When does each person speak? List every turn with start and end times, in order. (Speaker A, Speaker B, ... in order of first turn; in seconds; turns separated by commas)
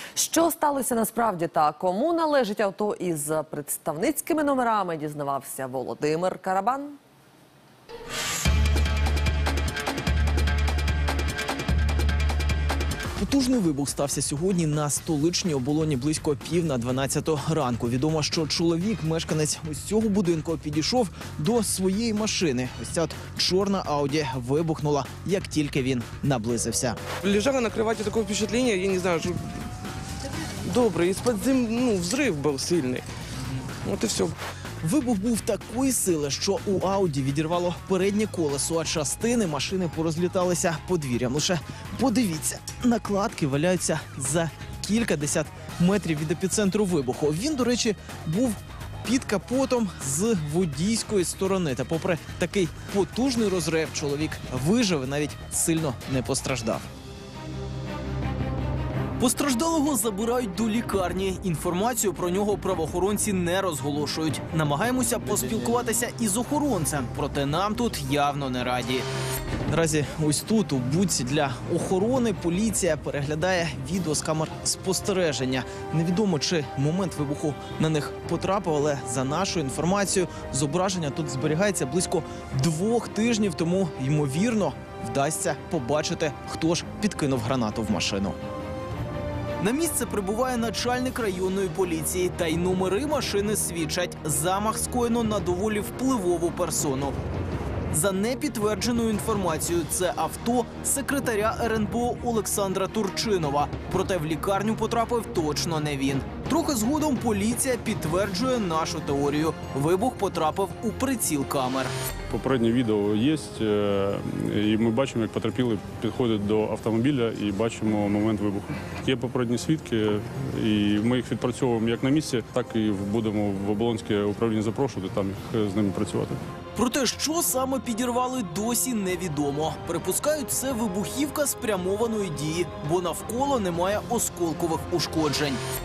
Speaker A: 0.2-7.0, Speaker B: 13.2-27.0, Speaker C: 27.2-29.6, Speaker C: 30.6-33.0, Speaker C: 33.9-34.4, Speaker B: 34.8-56.9, Speaker B: 59.2-69.1, Speaker B: 69.7-88.4, Speaker B: 89.6-97.2, Speaker B: 97.9-111.9, Speaker D: 112.3-126.4, Speaker B: 126.8-135.6